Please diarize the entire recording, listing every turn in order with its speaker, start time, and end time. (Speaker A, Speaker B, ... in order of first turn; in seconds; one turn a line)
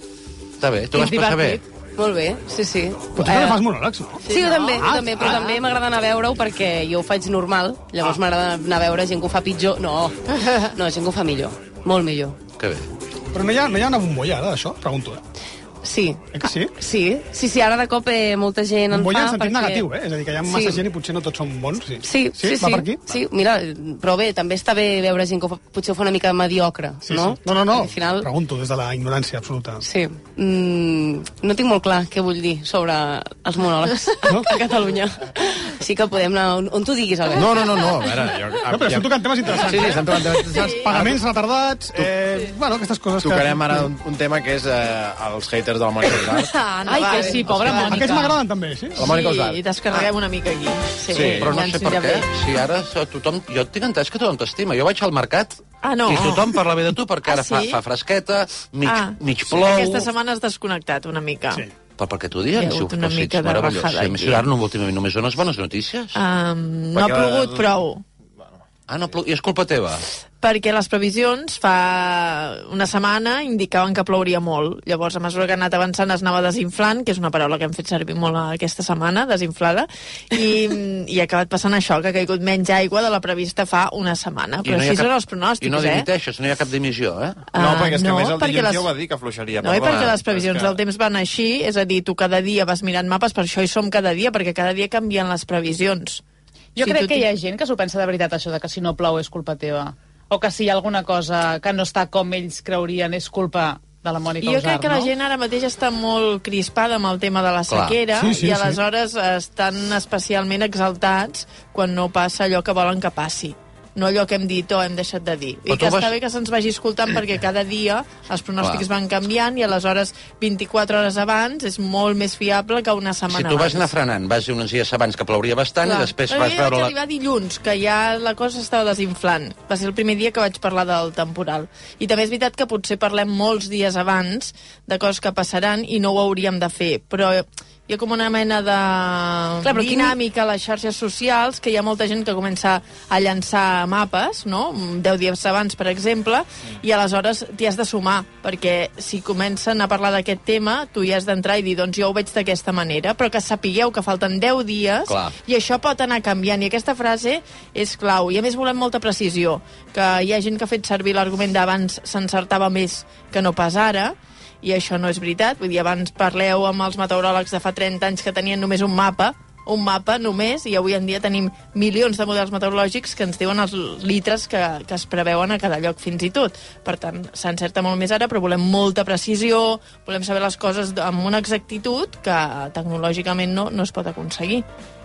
Speaker A: 0.6-1.6
Speaker B: 0.9-3.6
Speaker C: 3.1-5.5
Speaker D: 4.2-5.6
Speaker B: 4.2-12.4
Speaker A: 12.6-12.8
Speaker C: 13.3-15.2
Speaker B: 15.8-19.9
Speaker C: 16.3-16.7
Speaker C: 18.9-23.1
Speaker B: 20.5-20.8
Speaker B: 22.0-28.3
Speaker C: 27.1-29.8
Speaker B: 29.8-37.9
Speaker E: 37.3-41.2
Speaker C: 38.6-43.9
Speaker D: 40.2-40.9
Speaker E: 43.2-46.5
Speaker D: 46.5-48.1
Speaker B: 46.9-47.8
Speaker F: 46.9-48.4
Speaker C: 47.7-49.0
Speaker E: 49.0-49.6
Speaker D: 49.0-52.2
Speaker E: 51.1-51.5
Speaker A: 51.1-60.1
Speaker D: 55.8-56.6
Speaker D: 57.2-57.8
Speaker D: 58.8-61.7
Speaker A: 62.0-66.2
Speaker D: 62.6-64.4
Speaker D: 66.1-68.0
Speaker G: 66.9-67.7
Speaker A: 68.9-70.0
Speaker D: 70.4-86.0
Speaker A: 84.6-87.5
Speaker D: 87.5-88.9
Speaker G: 87.5-90.8
Speaker D: 89.6-96.2
Speaker F: 96.8-105.1
Speaker D: 96.8-97.2
Speaker D: 104.4-123.9
Speaker A: 107.7-108.0
Speaker C: 108.1-108.8
Speaker A: 115.7-116.1
Speaker A: 123.3-126.9
Speaker D: 125.8-184.6
Speaker B: 139.6-140.2
Speaker A: 155.1-155.3